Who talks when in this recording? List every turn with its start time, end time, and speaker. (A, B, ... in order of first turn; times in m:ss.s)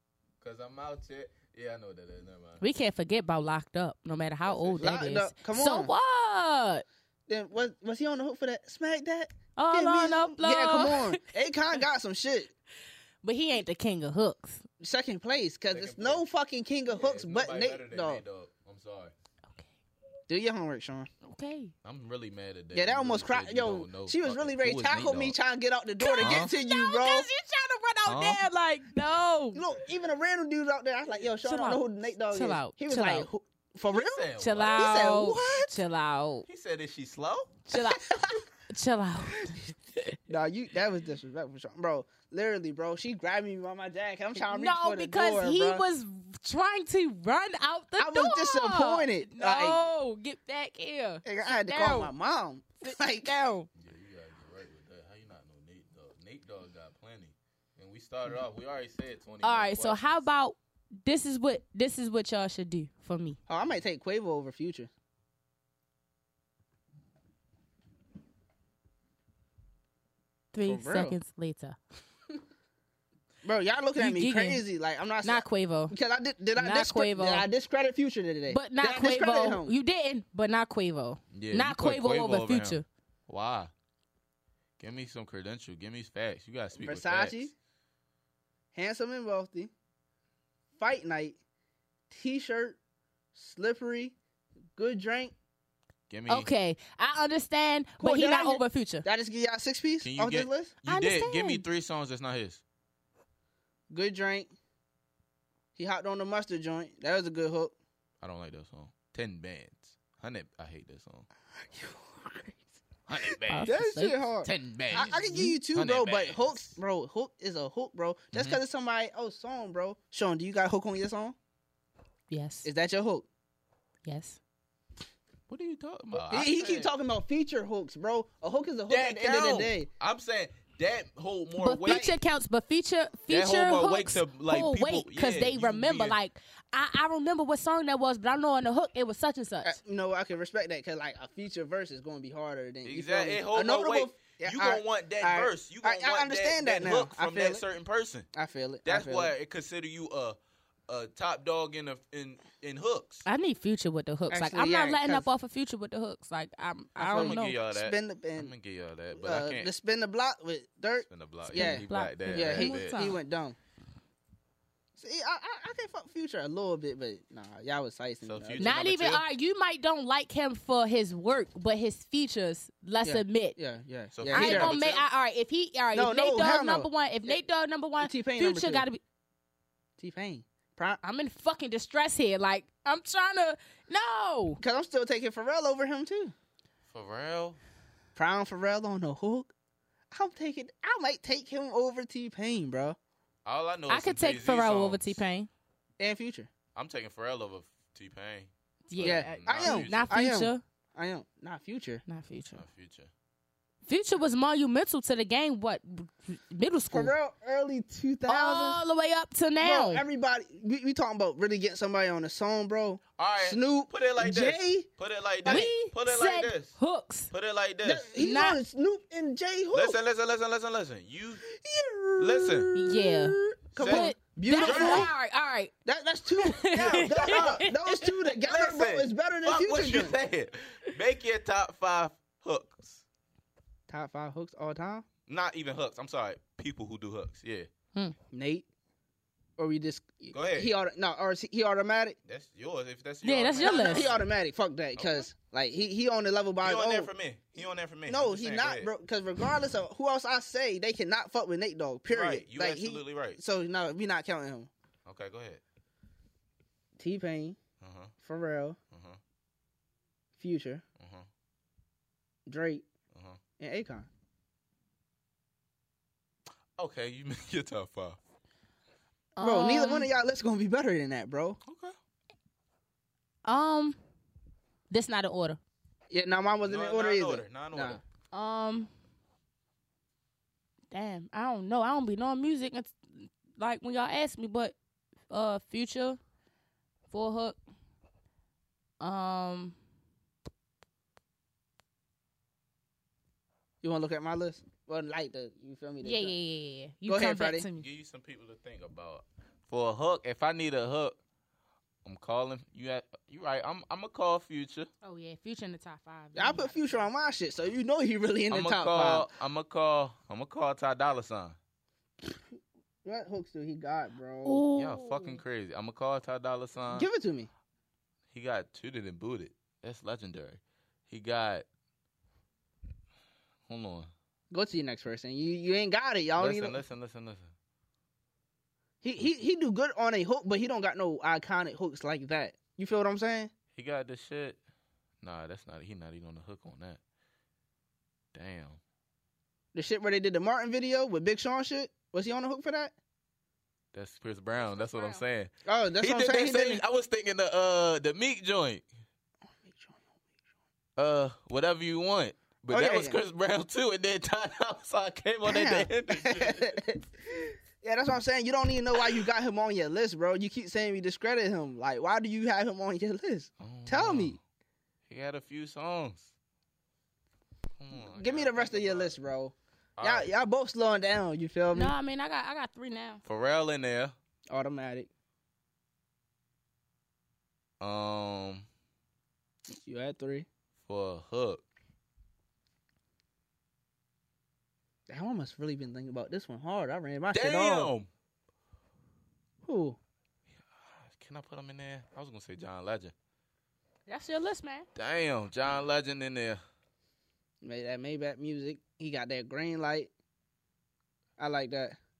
0:00.4-0:02.6 A
0:02.6-0:06.8 B
0:04.4-0:04.9 A
0:04.8-0:05.9 C
0:07.3-0:12.5 C
0:09.6-0:11.2 B
0:13.2-0:14.6 B
0:14.8-0:18.2 C
0:15.7-0:16.2 A
0:16.9-0:19.1 A
0:20.3-0:21.1 C
0:21.2-0:21.7 B
0:21.8-0:25.4 A
0:22.7-0:27.3 C
0:26.0-0:29.6 B
0:26.2-0:26.5 A
0:28.1-0:28.4 A
0:29.5-0:35.7 C
0:31.4-0:33.3 B
0:33.9-0:35.0 A
0:34.4-0:36.4 B
0:36.5-0:37.6 A
0:37.7-0:40.1 B
0:38.1-0:38.4 C
0:40.3-0:45.8 C
0:44.4-0:52.1 B
0:48.0-0:49.8 C
0:51.2-0:53.4 C
0:52.8-0:53.7 B
0:53.7-1:00.2 A
0:59.4-1:03.4 B
1:03.5-1:04.9 C
1:10.5-1:11.8 B
1:10.6-1:11.2 C
1:13.4-1:19.7 C
1:14.0-1:14.6 B
1:15.2-1:15.9 B
1:16.6-1:17.5 B
1:18.5-1:22.8 B
1:21.3-1:23.7 A
1:24.8-1:27.4 A
1:26.8-1:27.5 C
1:28.7-1:29.7 C
1:30.8-1:31.4 C
1:32.1-1:32.8 C
1:33.4-1:34.2 C
1:34.8-1:35.3 C
1:36.1-1:36.5 A
1:36.3-1:39.0 B
1:38.0-1:40.7 C
1:40.0-1:42.6 A
1:40.8-1:41.6 B
1:43.9-1:44.5 C
1:45.8-1:47.7 C
1:48.2-1:51.3 A
1:51.7-1:52.6 C
1:53.1-1:53.7 A
1:53.2-2:01.4 C
1:53.5-1:54.3 B
1:54.4-1:56.7 A
1:55.0-1:55.5 B
1:58.3-1:58.6 A
2:02.3-2:02.7 B
2:02.6-2:03.3 C
2:04.0-2:04.4 B
2:05.5-2:06.9 A
2:06.3-2:09.9 C
2:08.9-2:12.1 A
2:11.6-2:19.8 B
2:11.9-2:12.2 C
2:13.3-2:16.2 A
2:19.6-2:27.6 C
2:22.8-2:28.3 A
2:28.3-2:29.3 C
2:28.8-2:30.4 A
2:30.9-2:33.3 A
2:33.2-2:37.6 B
2:34.3-2:35.3 C
2:37.0-2:38.5 C
2:37.0-2:39.7 A
2:39.1-2:43.6 C
2:41.0-2:43.0 A
2:41.5-2:43.2 B
2:45.0-2:48.7 C
2:48.2-2:49.2 A
2:48.6-2:53.6 B
2:53.0-2:55.0 C
2:54.2-2:55.0 A
2:54.3-2:59.0 B
2:55.9-2:57.4 C
2:58.0-2:58.9 C
3:00.0-3:01.0 C
3:01.0-3:04.6 B
3:04.6-3:06.3 C
3:06.9-3:07.6 A
3:08.2-3:09.5 C
3:10.1-3:13.0 C
3:13.4-3:15.2 A
3:13.9-3:15.5 B
3:16.0-3:16.5 C
3:16.7-3:20.1 A
3:18.9-3:20.6 B
3:19.0-3:22.0 C
3:22.1-3:22.6 B
3:22.6-3:23.1 A
3:23.9-3:27.1 B
3:26.9-3:28.8 C
3:28.3-3:30.0 B
3:29.6-3:34.9 C
3:33.2-3:36.8 A
3:35.4-3:35.7 C
3:35.4-3:37.3 B
3:37.3-3:38.1 A
3:37.8-3:40.0 C
3:38.2-3:38.6 B
3:39.7-3:41.4 A
3:41.4-3:45.1 C
3:42.2-3:42.7 A
3:42.7-3:45.7 B
3:43.7-3:45.1 A
3:45.8-3:50.2 C
3:46.3-3:48.1 B
3:46.7-3:47.6 A
3:48.4-3:53.0 A
3:53.9-3:55.1 C
3:55.3-3:57.7 A
3:58.3-3:58.6 C
3:59.6-4:02.2 C
4:00.3-4:00.7 A
4:02.3-4:04.2 A
4:03.2-4:04.0 B
4:03.6-4:07.1 C
4:05.0-4:05.3 A
4:06.6-4:08.9 A
4:08.1-4:14.7 C
4:12.1-4:13.4 A
4:15.1-4:15.6 A
4:17.0-4:17.6 C
4:17.8-4:18.1 A
4:18.2-4:18.8 C
4:18.9-4:19.2 A
4:20.4-4:20.8 C
4:21.0-4:21.3 A
4:22.5-4:22.9 C
4:23.1-4:23.4 A
4:23.6-4:24.1 C
4:26.8-4:28.2 A
4:29.4-4:30.1 B
4:29.4-4:31.6 C
4:31.6-4:32.0 A
4:33.4-4:34.0 B
4:34.9-4:35.6 B
4:36.1-4:38.0 C
4:36.6-4:38.0 A
4:38.3-4:38.9 B
4:40.9-4:44.7 B
4:45.3-4:46.2 B
4:47.1-4:47.6 B
4:49.0-4:49.8 B
4:53.8-4:56.4 C
4:56.0-4:57.9 B
4:57.1-4:57.6 C
4:57.7-5:01.2 A
5:02.0-5:04.9 A
5:05.0-5:07.1 B
5:06.4-5:09.3 C
5:08.5-5:11.6 A
5:12.2-5:14.6 C
5:14.4-5:15.4 B
5:14.8-5:17.1 A
5:16.9-5:17.5 C
5:18.3-5:21.6 A
5:23.7-5:24.1 A
5:24.5-5:26.8 C
5:26.4-5:27.5 A
5:29.0-5:33.5 C
5:33.7-5:34.6 A
5:35.2-5:37.0 A
5:38.3-5:38.8 A
5:39.7-5:42.9 C
5:43.9-5:48.9 A
5:44.6-5:45.2 B
5:45.6-5:46.8 C
5:49.5-5:50.2 C
5:51.0-5:56.7 A
5:52.7-5:53.2 C
5:55.4-6:04.4 C
6:03.6-6:04.4 A
6:05.1-6:06.3 A
6:07.8-6:09.2 A
6:07.9-6:11.9 C
6:10.0-6:10.3 A
6:11.7-6:13.2 B
6:13.2-6:14.2 A
6:14.5-6:15.1 C
6:17.8-6:18.6 A
6:19.7-6:20.5 C
6:20.8-6:21.6 A
6:25.1-6:27.9 C
6:27.3-6:28.1 A
6:29.6-6:30.0 C
6:30.8-6:33.1 A
6:34.1-6:34.9 B
6:34.9-6:36.6 A
6:37.6-6:40.1 C
6:41.4-6:42.0 C